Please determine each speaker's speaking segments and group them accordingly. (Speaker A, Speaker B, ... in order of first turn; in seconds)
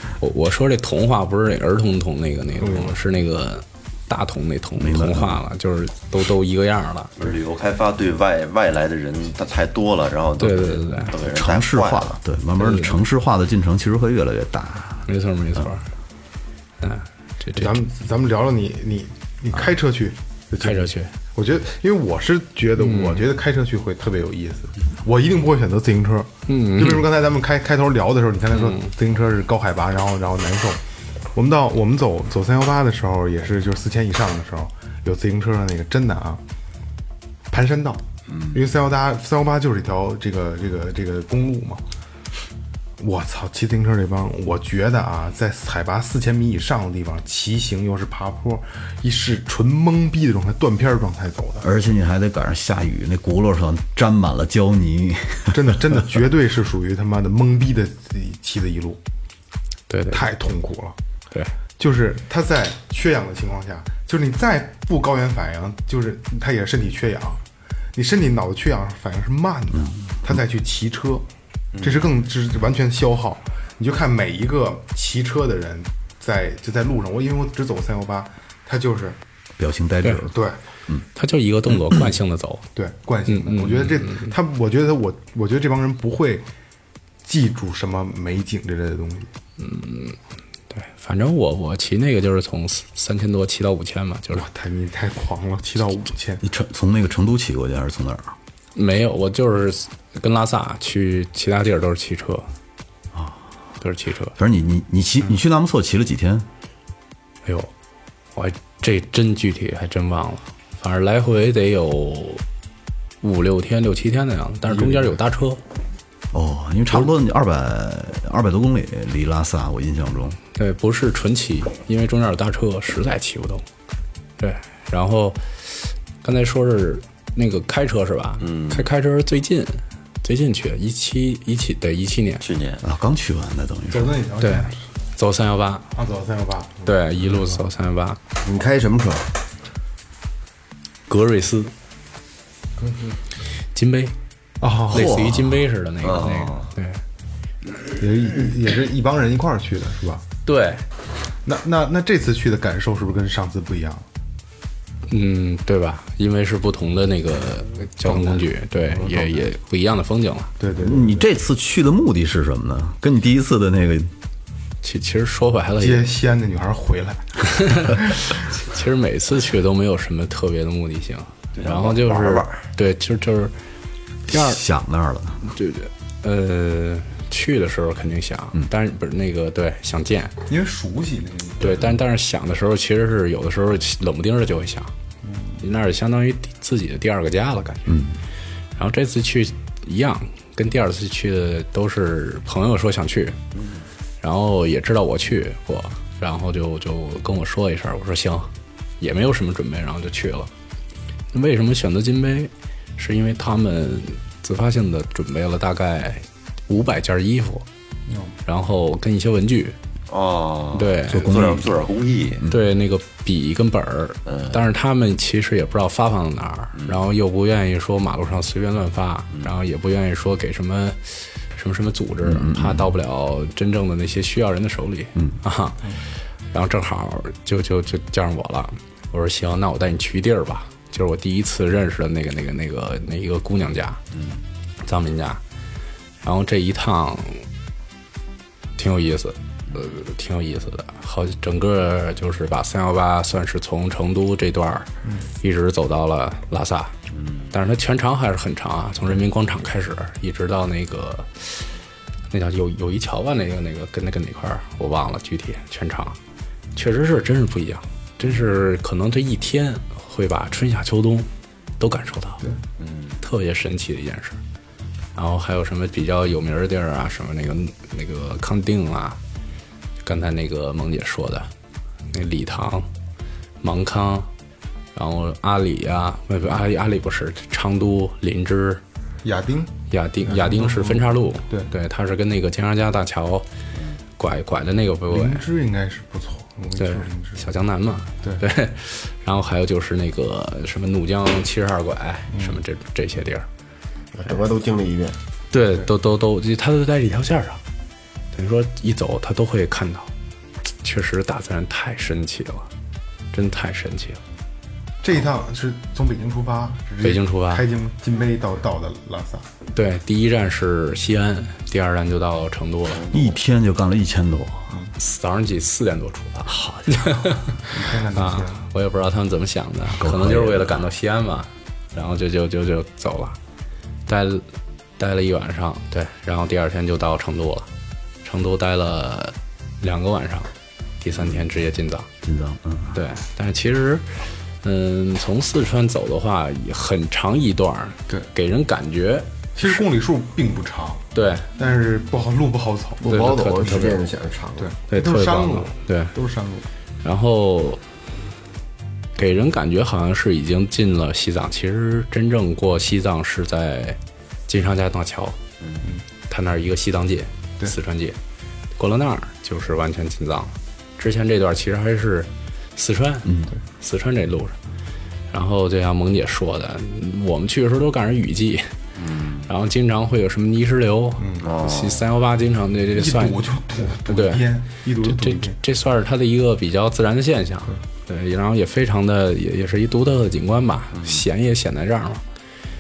Speaker A: 0.2-7.1, 10.4-11.1, 12.6-13.0, 15.1-15.8, 16.8-17.8, 20.6-21.1, 22.8-23.3, 26.5-27.1, 28.5-28.9, 59.9-60.3, 81.2-82.7, 83.3-84.3, 89.6-90.2, 90.7-94.5, 98.8-102.5, 103.8-104.3, 107.5-107.7, 108.3-112.4, 113.2-115.6, 120.5-123.7, 124.4-132.4, 134.4-135.9, 136.8-138.2, 141.1-141.7, 143.8-144.2, 144.9-147.0, 150.5-150.8, 155.1-160.5, 164.8-166.2, 167.6-173.5, 174.3-174.6, 175.4-180.4, 181.6-184.9, 185.6-188.0, 188.8-193.4, 194.2-198.5, 199.0-200.5, 201.3-207.7, 208.4-209.8, 210.7-211.3, 212.5-234.0, 234.8-235.4, 236.2-237.5, 238.8-244.9, 245.4-246.9, 247.5-251.7, 252.3-256.2, 256.8-261.3, 261.8-262.4, 263.2-264.4, 265.1-269.2, 270.0-271.5, 272.1-272.9, 273.6-274.3, 274.9-278.8, 279.9-283.5, 284.2-285.5, 286.8-293.5, 295.5-297.6, 298.3-300.1, 300.8-302.7, 303.3-304.2, 307.0-307.6, 309.7-313.0, 315.0-323.4, 324.1-324.4, 325.0-327.7, 328.2-330.5, 331.0-332.1, 332.9-339.8, 341.1-341.5, 343.1-344.0, 344.9-346.1, 347.0-347.8, 349.2-355.4, 356.3-358.2, 358.8-364.6, 365.3-368.7, 369.5-373.4, 374.1-374.5, 375.0-382.2
Speaker B: 2.6-3.0, 17.6-30.8, 31.4-36.4, 37.5-38.0, 38.5-41.8, 43.0-51.7, 55.5-59.0, 60.1-61.0, 61.8-67.4, 68.0-71.3, 71.8-79.2, 80.3-80.6, 82.8-86.5, 87.3-89.3, 94.3-96.4, 114.7-115.2, 133.9-134.8, 135.9-137.6, 142.8-143.2, 144.6-145.2, 148.0-150.2, 151.4-154.1, 158.0-159.4, 160.6-161.3, 165.8-168.3, 180.5-181.9, 185.2-185.6, 208.1-208.3, 279.2-281.7, 285.1-287.4, 292.3-292.6, 305.0-309.4, 317.7-318.6, 339.6-341.1, 341.6-343.7, 344.6-346.7, 371.2-371.5, 372.9-375.6
Speaker C: 4.8-5.4, 11.1-15.1, 51.6-55.9, 69.7-70.4, 79.6-81.0, 81.7-82.1, 96.4-98.3, 103.1-103.4, 104.3-106.5, 116.3-120.4, 132.8-134.2, 144.9-145.6, 160.8-164.1, 174.3-175.4, 187.9-188.2, 211.1-211.7, 222.2-222.9, 313.1-314.7, 316.5-317.4, 319.9-320.9, 332.2-333.0, 363.2-363.5
Speaker D: 7.2-12.2, 38.3-38.6, 71.7-72.1, 128.4-128.9, 132.4-132.8, 146.0-146.7, 171.6-172.7, 193.6-193.9, 210.1-212.4, 214.3-214.6, 216.8-217.0, 234.1-234.4, 247.1-247.5, 262.8-263.2, 283.8-284.0, 312.9-313.4, 355.6-355.9, 369.0-369.5, 371.4-372.0, 380.9-381.2
Speaker E: 138.4-139.2, 294.1-295.2, 343.0-344.7